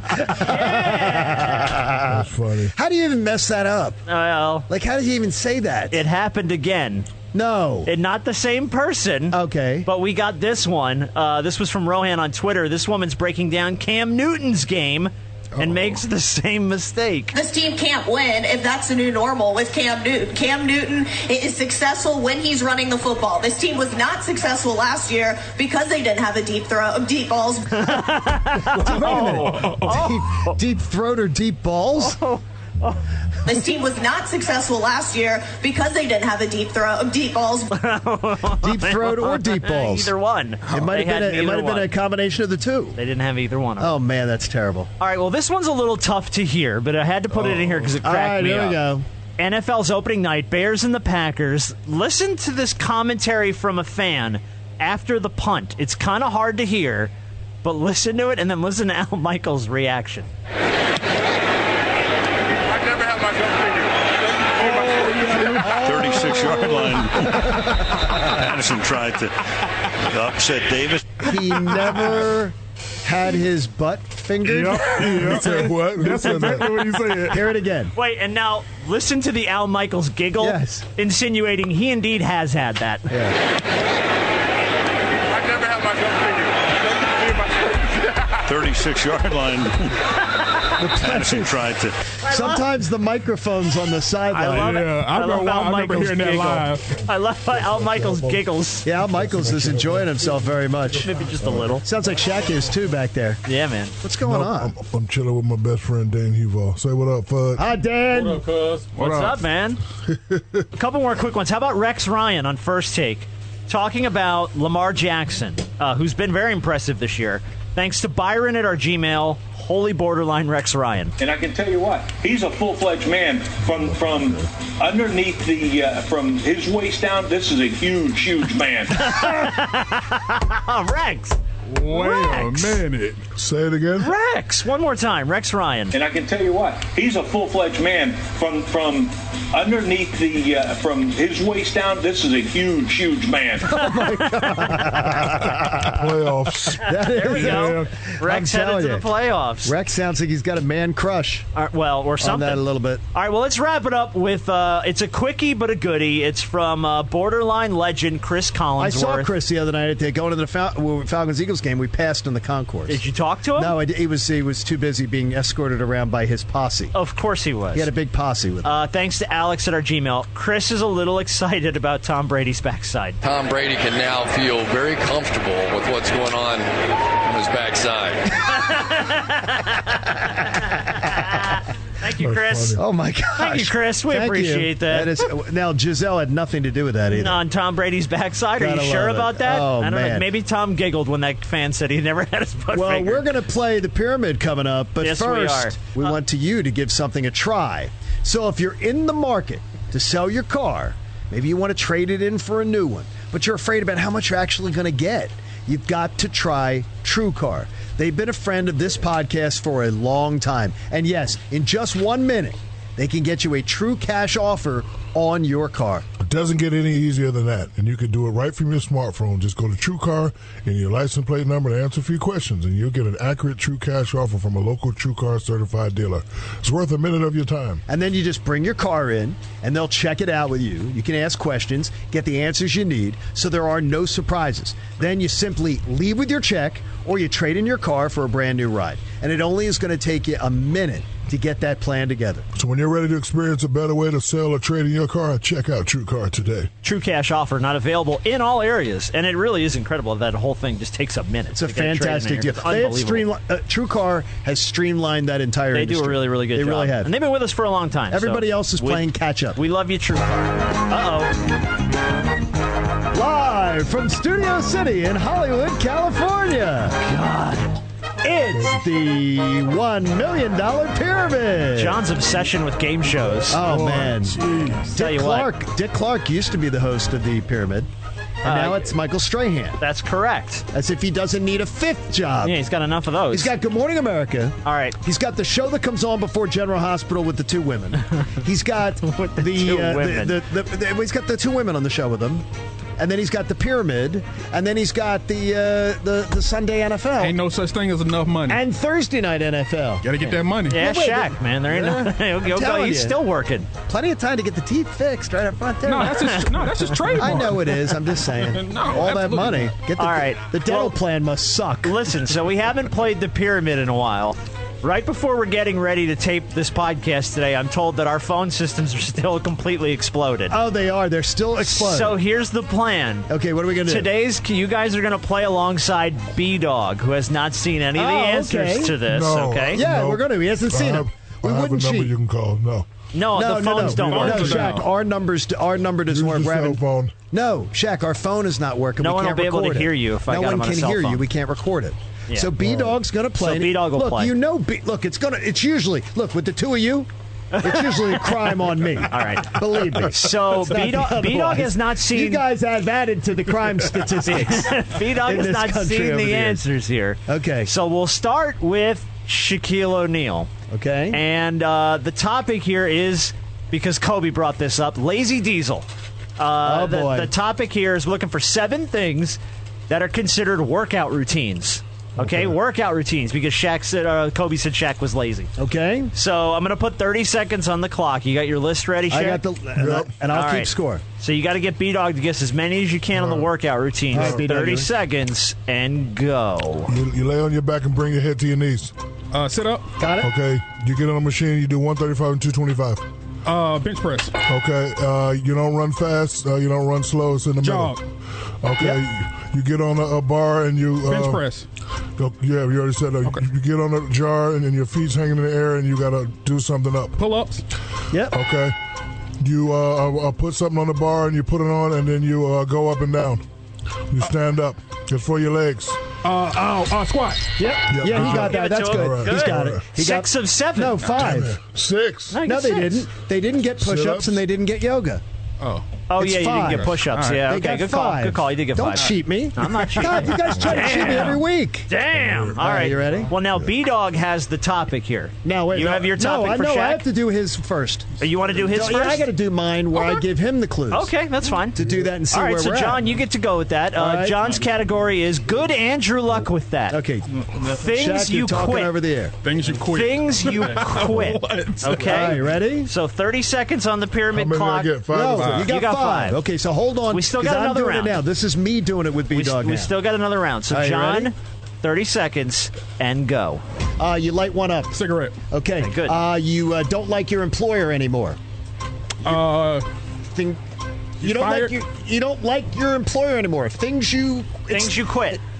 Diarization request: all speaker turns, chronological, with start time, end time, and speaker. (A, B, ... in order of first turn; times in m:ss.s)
0:00.2-0:04.0 A
0:00.3-0:01.7 B
0:02.0-0:02.7 C
0:04.1-0:04.7 B
0:04.7-0:06.0 A
0:05.9-0:07.1 B
0:07.3-0:07.9 A
0:07.8-0:17.3 B
0:09.3-0:09.9 A
0:17.3-0:27.8 D
0:27.7-0:30.6 B
0:28.6-0:32.2 A
0:29.2-0:29.7 E
0:32.0-0:33.1 B
0:33.4-0:37.7 D
0:37.7-0:41.9 B
0:38.6-0:40.1 A
0:40.7-0:43.0 A
0:42.9-0:43.9 B
0:43.8-0:44.9 A
0:45.0-0:48.8 B
0:48.0-0:49.0 A
0:49.4-1:00.3 B
1:04.6-1:07.0 A
1:05.3-1:05.6 E
1:05.6-1:11.3 F
1:11.2-1:15.7 A
1:14.4-1:17.5 E
1:14.7-1:17.2 C
1:17.3-1:17.9 A
1:17.9-1:23.1 B
1:20.4-1:20.8 A
1:23.1-1:23.4 A
1:28.4-1:30.0 F
1:30.8-1:31.6 A
1:30.9-1:32.0 F
1:32.2-1:32.6 B
1:32.2-1:34.8 A
1:34.3-1:38.9 B
1:34.5-1:36.9 E
1:37.5-1:41.7 C
1:38.8-1:41.1 A
1:41.0-1:41.8 B
1:41.8-1:43.4 A
1:43.4-1:44.0 B
1:44.0-1:44.7 A
1:44.2-1:47.7 C
1:47.6-1:48.5 A
1:48.9-1:49.8 B
1:49.0-1:49.3 C
1:50.1-1:50.6 C
1:50.7-2:01.1 B
2:01.2-2:09.1 G
2:08.9-2:11.4 B
2:11.7-2:13.2 E
2:11.9-2:12.8 B
2:13.4-2:14.1 C
2:14.0-2:15.9 B
2:15.9-2:23.8 G
2:23.6-2:26.0 A
2:24.4-2:24.9 B
2:25.6-2:27.9 C
2:26.8-2:29.0 A
2:26.9-2:29.7 B
2:29.6-2:31.5 A
2:31.5-2:39.3 B
2:32.2-2:33.0 A
2:38.8-2:43.0 A
2:42.9-2:43.8 B
2:43.6-2:46.9 A
2:46.9-2:47.9 B
2:47.7-2:48.7 A
2:48.6-2:53.2 B
2:53.2-2:58.4 H
2:58.4-3:02.8 B
3:02.2-3:02.8 C
3:02.8-3:07.4 A
3:03.4-3:05.2 B
3:07.1-3:13.2 B
3:08.6-3:10.3 A
3:12.7-3:36.0 A
3:15.0-3:16.1 B
3:36.2-3:47.8 C
3:47.9-4:02.5 A
4:02.5-4:06.7 C
4:06.8-4:13.3 B
4:11.5-4:17.1 A
4:15.7-4:21.4 B
4:18.1-4:19.6 A
4:23.1-4:27.0 A
4:27.0-4:27.8 B
4:28.2-4:32.0 A
4:28.5-4:28.8 C
4:31.8-4:33.6 B
4:33.4-4:34.9 C
4:33.5-4:34.4 A
4:34.9-4:37.9 A
4:35.0-4:35.5 B
4:38.4-4:39.8 A
4:38.4-4:38.9 B
4:39.8-4:40.6 B
4:40.7-4:42.6 A
4:42.4-4:43.5 B
4:43.3-4:52.4 A
4:44.6-4:45.0 B
4:49.0-4:50.4 B
4:53.0-4:57.4 A
4:57.2-4:58.6 E
4:58.5-5:00.2 A
5:00.0-5:00.8 E
5:00.6-5:03.7 B
5:00.7-5:03.2 A
5:01.7-5:02.0 E
5:03.9-5:06.3 A
5:05.8-5:09.7 E
5:06.1-5:07.4 B
5:07.1-5:12.0 A
5:10.0-5:11.0 B
5:11.8-5:20.6 B
5:20.5-5:22.2 A
5:21.6-5:23.3 B
5:23.3-5:24.1 A
5:23.8-5:29.8 B
5:27.9-5:29.0 A
5:29.0-5:32.9 C
5:29.7-5:32.1 A
5:33.1-5:34.7 B
5:33.3-5:36.8 A
5:33.9-5:34.9 E
5:36.1-5:37.1 C
5:37.3-5:47.1 A
5:39.0-5:41.2 B
5:42.6-5:43.0 C
5:43.4-5:44.3 B
5:47.5-5:52.4 B
5:47.6-5:56.6 A
5:54.3-6:00.5 B
5:57.3-5:57.7 A
6:00.7-6:01.2 A
6:01.1-6:15.5 B
6:06.6-6:07.3 A
6:15.6-6:16.1 A
6:16.1-6:19.4 B
6:19.1-6:21.0 A
6:19.8-6:20.1 C
6:20.3-6:26.9 B
6:23.1-6:23.5 C
6:24.1-6:24.9 A
6:24.1-6:24.4 C
6:26.9-6:28.9 C
6:29.3-6:29.9 E
6:30.0-6:30.3 A
6:30.2-6:33.0 C
6:33.4-6:34.3 E
6:34.4-6:38.0 C
6:37.6-6:38.0 E
6:38.6-6:41.4 C
6:41.1-6:41.6 E
6:42.2-6:47.2 C
6:47.2-6:47.6 E
6:48.1-6:48.4 A
6:48.3-6:48.7 C
6:49.4-6:53.4 C
6:54.1-6:56.0 C
6:56.2-6:57.5 E
6:57.6-7:01.6 A
6:57.9-6:59.8 C
6:58.1-7:01.1 B
7:01.2-7:02.4 C
7:02.3-7:03.0 B
7:02.4-7:05.2 A
7:03.8-7:04.4 C
7:05.6-7:06.0 E
7:06.1-7:17.0 B
7:06.2-7:11.9 A
7:07.0-7:07.5 E
7:09.7-7:11.2 E
7:12.5-7:13.3 A
7:15.4-7:21.1 A
7:18.2-7:19.3 B
7:20.9-7:27.0 B
7:21.8-7:23.0 A
7:24.0-7:24.4 A
7:26.9-7:29.3 A
7:27.6-7:29.0 B
7:29.4-7:32.3 E
7:29.8-7:36.4 B
7:32.0-7:32.9 A
7:34.3-7:35.7 C
7:35.1-7:40.0 A
7:35.4-7:35.7 E
7:37.1-7:38.2 B
7:39.3-7:43.6 B
7:40.7-7:41.3 A
7:44.0-7:45.0 A
7:44.9-7:45.4 E
7:45.5-7:48.4 A
7:45.8-7:46.2 B
7:49.2-7:49.8 E
7:50.2-7:50.6 A
7:51.2-7:55.3 A
7:51.2-7:51.7 E
7:54.7-7:55.4 B